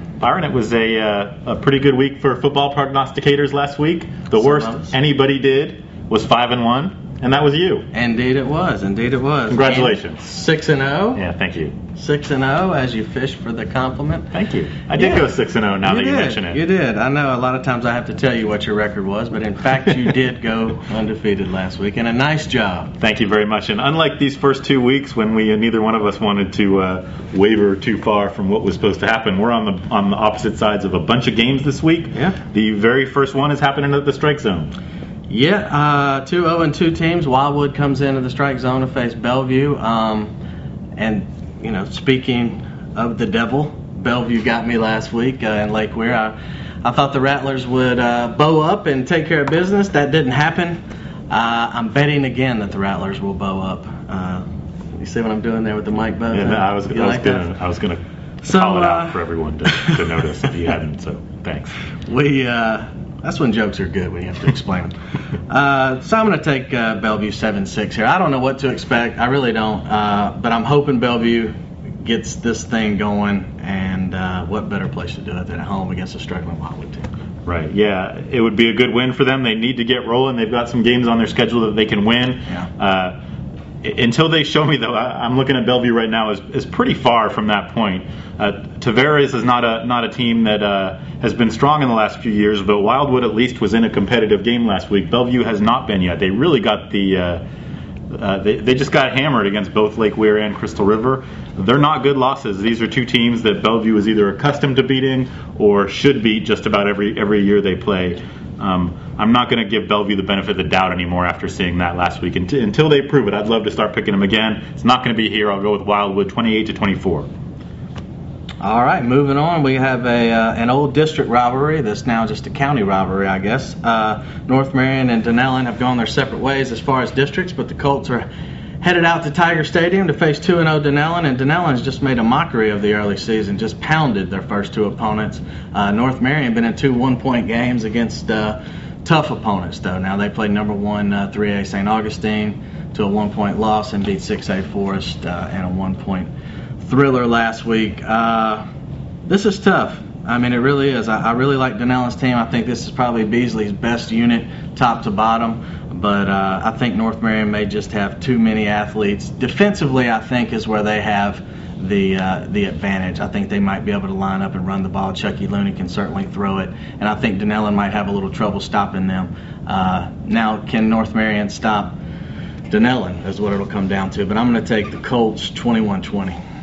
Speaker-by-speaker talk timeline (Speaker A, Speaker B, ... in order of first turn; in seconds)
Speaker A: 0.2-7.9, 9.5-10.2, 11.2-11.8, 14.3-16.6, 23.0-34.7, 56.3-61.7, 77.5-83.2, 83.8-97.4, 98.1-117.3
Speaker B: 4.4-4.9, 7.9-11.2, 11.9-14.3, 15.0-15.3, 15.8-22.9, 35.3-40.3, 41.0-57.5, 58.4-59.2, 62.0-64.9, 65.5-77.1, 118.6-128.3, 128.8-146.3, 146.8-148.6, 149.3-171.9, 172.7-176.4